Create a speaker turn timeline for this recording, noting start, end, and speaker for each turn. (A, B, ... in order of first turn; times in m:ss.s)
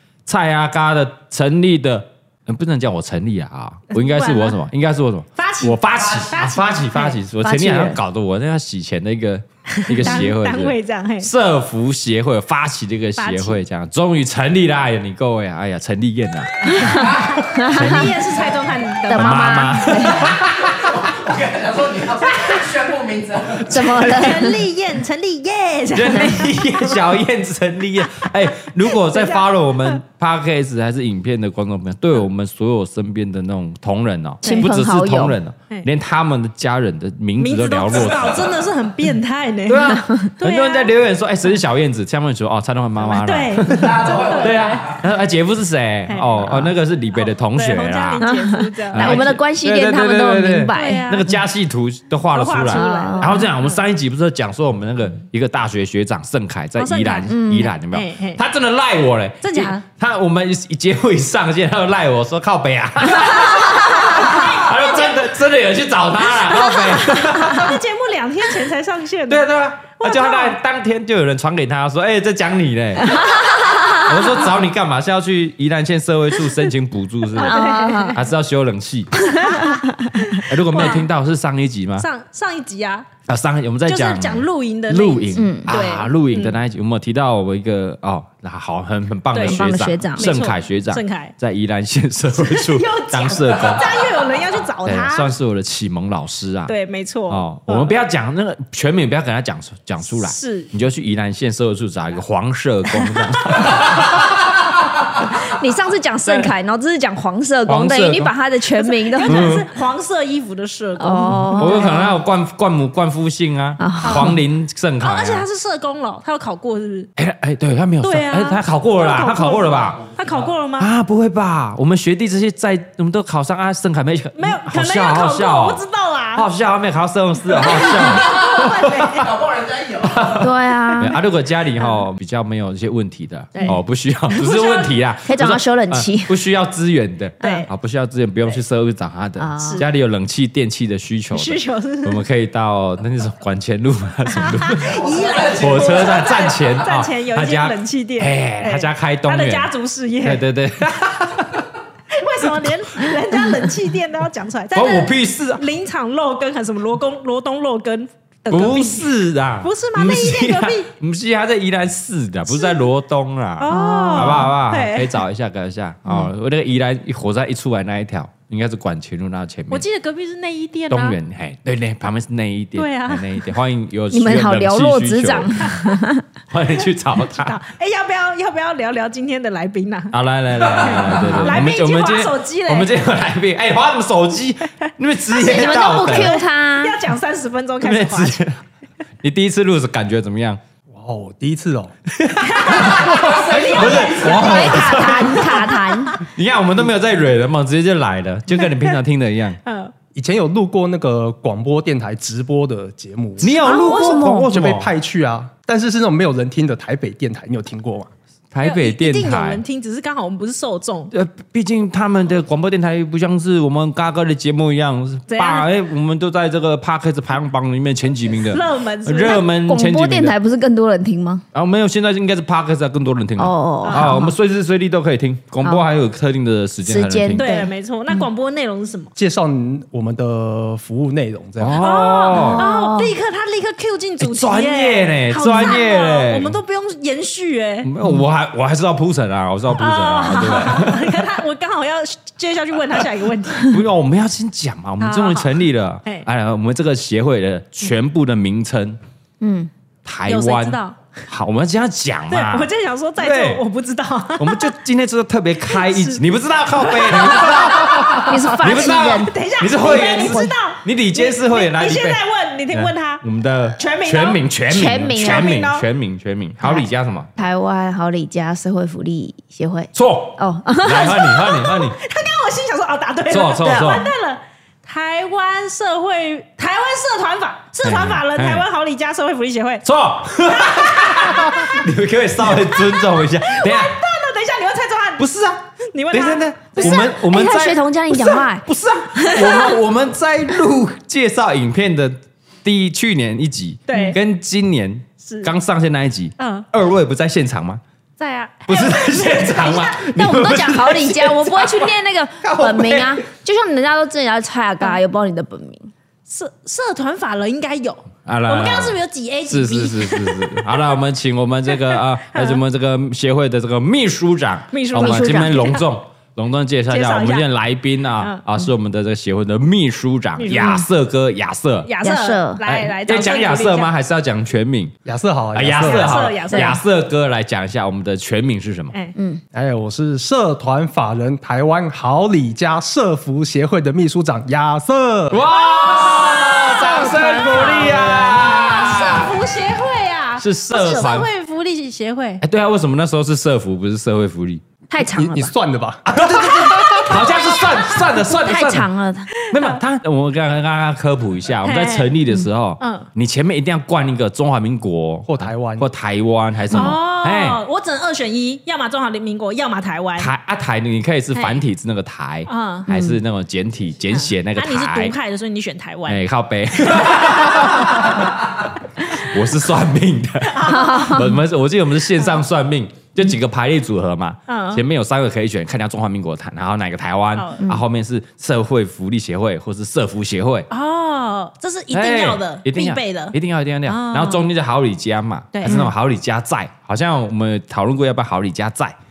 0:00.2-0:17.0 A
0:03.9-0:04.6 B
0:05.4-0:07.2 B
0:07.4-0:08.0 C
0:09.7-0:11.3 B
0:13.2-0:13.6 B
0:16.7-0:18.1 C
0:17.0-0:17.4 D
0:17.6-0:20.0 B
0:17.7-0:18.1 A
0:19.0-0:20.4 C
0:19.1-0:20.7 A
0:20.3-0:23.9 D
0:22.3-0:22.8 B
0:23.6-0:24.6 C
0:23.9-0:27.0 B
0:25.9-0:38.6 A
0:28.9-0:30.0 B
0:34.4-0:34.7 B
0:34.4-0:35.4 C
0:37.4-0:40.9 B
0:39.7-0:48.2 A
0:39.9-0:40.3 C
0:43.0-0:45.0 B
0:43.7-0:45.0 D
0:46.1-0:49.2 B
0:48.2-0:51.3 C
0:48.9-1:07.8 A
0:50.7-0:51.3 B
0:52.3-0:53.7 B
0:52.6-0:53.5 C
0:56.8-0:58.4 B
0:57.3-0:57.7 C
0:59.4-0:59.8 B
1:03.4-1:05.2 B
1:06.6-1:09.4 B
1:09.3-1:19.2 A
1:10.0-1:10.6 B
1:13.2-1:13.9 C
1:17.3-1:18.2 B
1:17.4-1:18.2 C
1:19.1-1:20.4 C
1:19.4-1:21.0 B
1:20.4-1:22.1 A
1:22.0-1:23.1 B
1:23.3-1:33.9 A
1:23.8-1:26.6 B
1:25.3-1:25.8 C
1:29.3-1:31.3 B
1:29.4-1:30.3 C
1:32.3-1:35.3 B
1:34.8-1:36.7 A
1:36.7-1:37.9 B
1:37.3-1:44.3 A
1:40.1-1:40.7 B
1:45.3-1:49.5 C
1:47.7-1:48.3 A
1:48.8-1:52.0 B
1:49.2-1:49.7 A
1:51.0-1:52.2 C
1:51.5-1:55.4 A
1:53.8-1:54.4 C
1:54.0-1:54.4 B
1:55.0-1:57.1 B
1:57.2-2:00.0 A
1:58.0-2:00.9 B
2:00.1-2:00.5 D
2:00.8-2:05.8 A
2:04.4-2:06.5 B
2:06.4-2:09.2 A
2:07.5-2:09.4 B
2:08.5-2:10.4 D
2:10.0-2:25.0 A
2:10.4-2:11.2 C
2:13.5-2:15.0 B
2:15.2-2:16.4 C
2:17.4-2:17.7 B
2:19.4-2:19.8 C
2:19.6-2:19.9 B
2:21.3-2:22.2 B
2:24.3-2:30.4 B
2:24.9-2:26.3 D
2:25.5-2:29.7 A
2:30.2-2:31.6 A
2:32.1-2:39.1 B
2:34.7-2:35.6 A
2:38.5-2:49.8 A
2:39.6-2:40.9 B
2:42.5-2:42.8 B
2:43.6-2:45.2 B
2:43.7-2:44.6 C
2:46.0-2:46.3 C
2:49.7-2:51.2 B
2:50.9-2:55.6 A
2:52.7-2:53.4 B
2:54.1-2:56.2 C
2:55.6-2:56.0 B
2:56.5-2:57.6 A
2:57.2-3:00.2 B
3:00.1-3:06.4 A
3:00.6-3:01.0 D
3:00.8-3:03.0 B
3:05.3-3:07.0 C
3:05.4-3:08.4 B
3:07.8-3:08.6 A
3:09.2-3:10.6 A
3:10.9-3:11.9 E
3:12.2-3:15.5 A
3:12.4-3:16.2 B
3:13.2-3:14.1 D
3:13.4-3:14.0 E
3:14.1-3:16.2 C
3:16.2-3:19.6 A
3:18.6-3:19.0 B
3:19.6-3:19.9 B
3:20.1-3:23.5 E
3:23.4-3:24.9 A
3:23.4-3:24.5 C
3:23.6-3:24.2 B
3:24.2-3:28.1 E
3:28.5-3:29.6 A
3:28.6-3:31.1 B
3:31.1-3:40.3 A
3:35.3-3:35.7 B
3:38.4-3:39.4 B
3:39.3-3:41.4 C
3:41.5-3:47.6 A
3:43.4-3:44.3 C
3:43.8-3:44.3 B
3:46.8-3:48.3 C
3:47.4-3:49.1 B
3:49.2-3:51.8 E
3:51.6-3:52.6 A
3:51.8-3:57.9 B
3:52.3-3:53.1 C
3:54.2-3:56.6 A
3:57.8-4:01.3 A
3:58.0-3:58.2 C
3:59.7-4:03.8 B
4:03.6-4:09.0 A
4:05.0-4:05.5 B
4:09.4-4:09.7 C
4:10.0-4:13.6 A
4:10.3-4:11.0 B
4:12.3-4:14.7 B
4:14.4-4:27.3 A
4:15.7-4:16.2 B
4:16.8-4:23.2 B
4:18.2-4:20.5 C
4:23.8-4:24.4 B
4:24.7-4:25.6 C
4:25.0-4:25.8 B
4:26.6-4:31.2 C
4:29.9-4:32.0 A
4:30.9-4:39.8 B
4:33.3-4:34.1 A
4:37.8-4:38.6 A
4:39.8-4:44.0 A
4:40.4-4:41.8 B
4:42.5-4:45.2 B
4:45.2-4:45.6 A
4:45.9-4:47.1 B
4:46.1-4:57.8 A
4:46.8-4:48.6 C
4:49.2-4:49.7 C
4:49.4-4:49.7 B
4:53.9-4:54.2 B
4:53.9-4:54.2 C
4:55.2-4:55.5 B
4:56.4-4:56.6 B
4:58.2-5:00.1 B
4:58.6-5:03.2 A
5:00.0-5:05.9 C
5:06.3-5:10.8 B
5:08.2-5:21.9 A
5:11.9-5:12.6 B
5:14.7-5:15.8 B
5:15.0-5:15.8 C
5:16.9-5:17.5 B
5:20.4-5:20.8 B
5:20.6-5:20.9 C
5:21.8-5:23.9 B
5:22.0-5:22.6 C
5:22.6-5:24.9 A
5:25.0-5:26.4 E
5:25.5-5:28.9 A
5:25.8-5:26.8 B
5:26.5-5:26.8 C
5:29.1-5:29.4 C
5:29.5-5:35.4 E
5:35.3-5:39.3 A
5:35.5-5:42.4 B
5:40.4-5:41.3 A
5:42.4-5:44.6 A
5:44.9-5:45.5 C
5:45.0-5:47.0 E
5:46.1-5:48.9 A
5:46.4-5:47.8 B
5:48.2-5:49.3 C
5:49.4-5:49.8 B
5:49.5-5:57.6 A
5:51.6-5:52.1 B
5:52.8-5:53.1 B
5:55.2-5:55.9 E
5:56.7-6:00.3 B
5:56.7-5:57.0 C
6:00.2-6:05.1 A
6:01.3-6:01.6 B
6:02.5-6:02.9 B
6:02.9-6:03.2 C
6:04.1-6:06.2 B
6:06.1-6:20.7 A
6:06.8-6:08.1 B
6:10.5-6:11.2 B
6:10.6-6:11.4 C
6:14.5-6:14.8 B
6:17.3-6:17.6 B
6:20.7-6:24.4 B
6:21.9-6:29.0 A
6:25.5-6:25.9 B